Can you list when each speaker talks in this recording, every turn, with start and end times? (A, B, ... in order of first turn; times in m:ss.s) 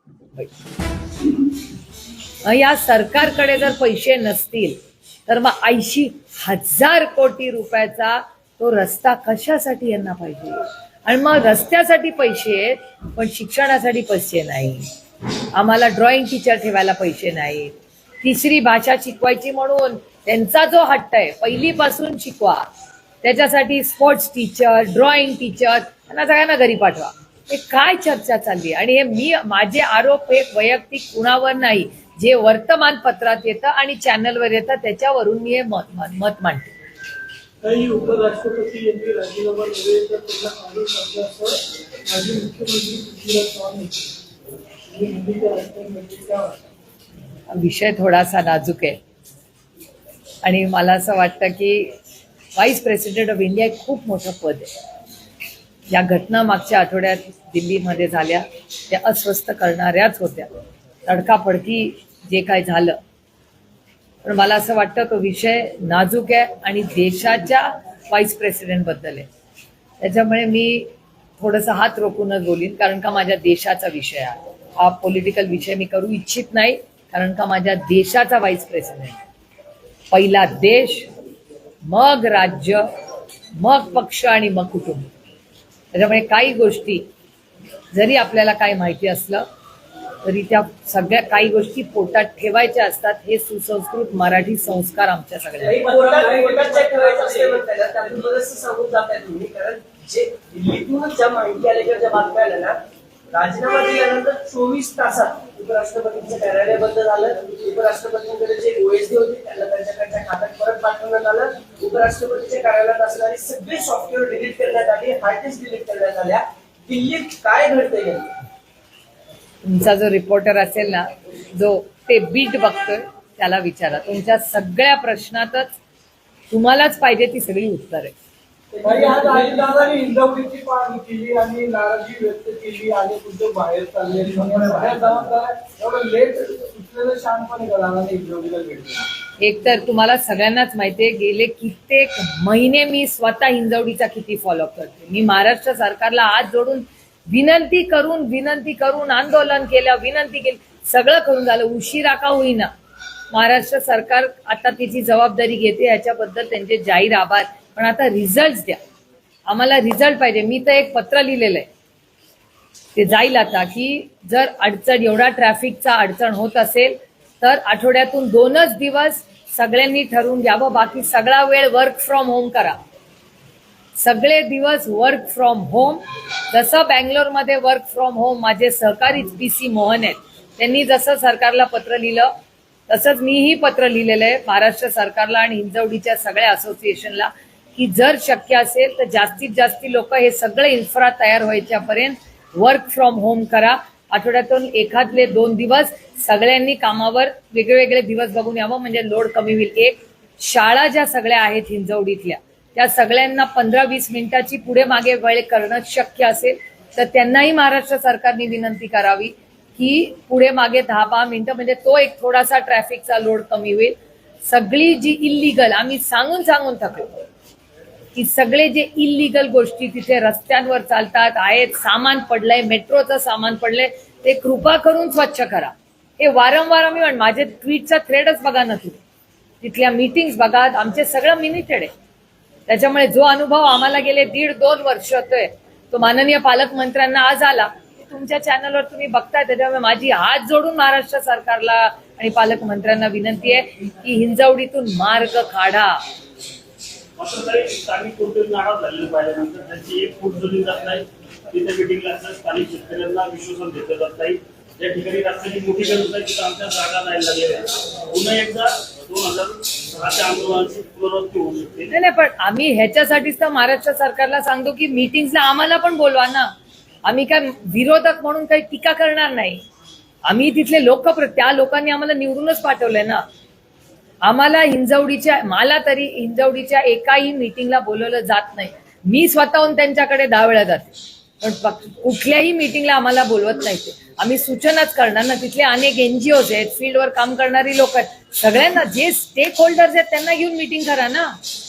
0:02.4-0:04.8 A
0:05.3-0:14.9 A
0:15.5-0:22.7 A
0:23.2-0:36.7 A
0:37.6-0:44.1 B
0:44.9-0:46.6 B
0:47.5-0:49.0 A
0:50.4-0:51.9 A
0:52.6-0:54.7 A
0:55.9-1:00.5 A
1:01.1-1:03.0 A
1:04.2-1:09.3 A
1:10.0-1:19.2 A
1:20.1-1:21.1 A
1:21.8-1:22.9 A
1:23.6-1:25.1 A
1:25.9-1:27.0 A
1:27.9-1:29.4 A
1:30.2-1:35.9 A
1:35.6-1:58.4 C
1:35.8-1:37.3 B
1:59.6-2:05.8 A
2:06.5-2:08.1 A
2:08.8-2:19.1 B
2:08.9-2:09.8 C
2:19.4-2:32.7 A
2:33.3-2:38.8 A
2:39.5-2:41.7 A
2:43.0-2:52.8 A
2:54.0-3:02.3 A
3:02.9-3:37.1 A
3:38.2-3:49.0 A
3:49.6-3:51.9 A
3:52.7-4:06.0 A
4:07.2-4:21.9 D
4:21.9-4:26.5 A
4:27.0-4:29.6 A
4:30.3-4:33.2 A
4:34.2-4:51.4 A